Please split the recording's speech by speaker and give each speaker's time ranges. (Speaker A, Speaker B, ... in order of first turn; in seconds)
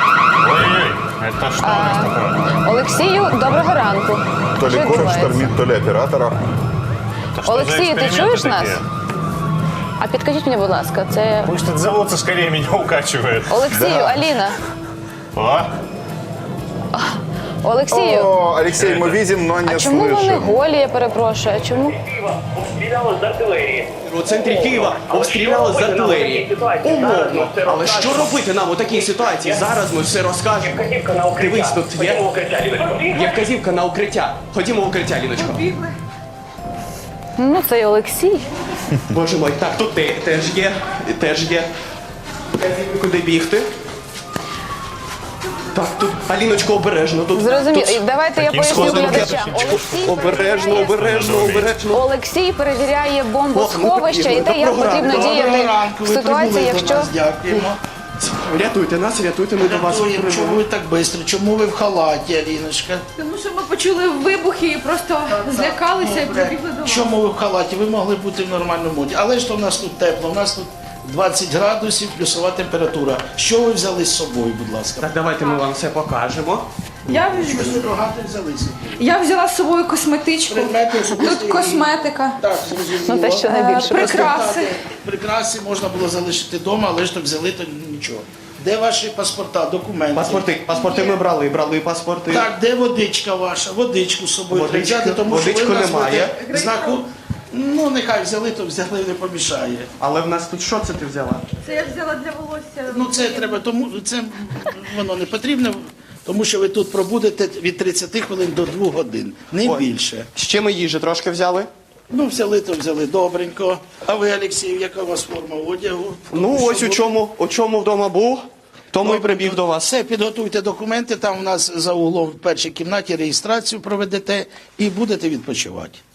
Speaker A: 0.4-2.4, 7.3-8.8, 11.4-13.8, 15.3-15.7, 18.8-19.2, 48.4-51.7
Speaker B: 1.6-5.6, 7.4-8.8, 10.0-11.5, 13.5-14.6, 16.9-18.4, 19.6-22.0, 37.4-38.5, 47.3-51.0, 51.9-57.1, 83.0-84.3
Speaker C: 4.6-6.4, 13.7-14.2, 17.9-20.6
Speaker D: 22.1-28.3, 29.0-29.6, 30.6-33.4
Speaker E: 24.0-35.7, 39.1-41.7, 42.6-43.7, 45.7-48.0, 48.7-52.0, 53.5-55.6, 57.5-60.6, 75.0-76.7, 90.1-92.5, 94.5-96.3, 100.0-101.5, 109.6-111.7, 116.3-118.4, 118.9-119.9
Speaker F: 54.9-57.8, 59.6-63.0, 65.3-75.2, 77.1-79.0, 80.5-91.0, 92.3-99.9, 102.9-110.3, 112.1-117.2, 119.0-126.0
Speaker G: 63.2-67.1, 77.1-77.9, 79.0-82.4, 83.5-84.8, 96.6-97.0, 101.6-103.6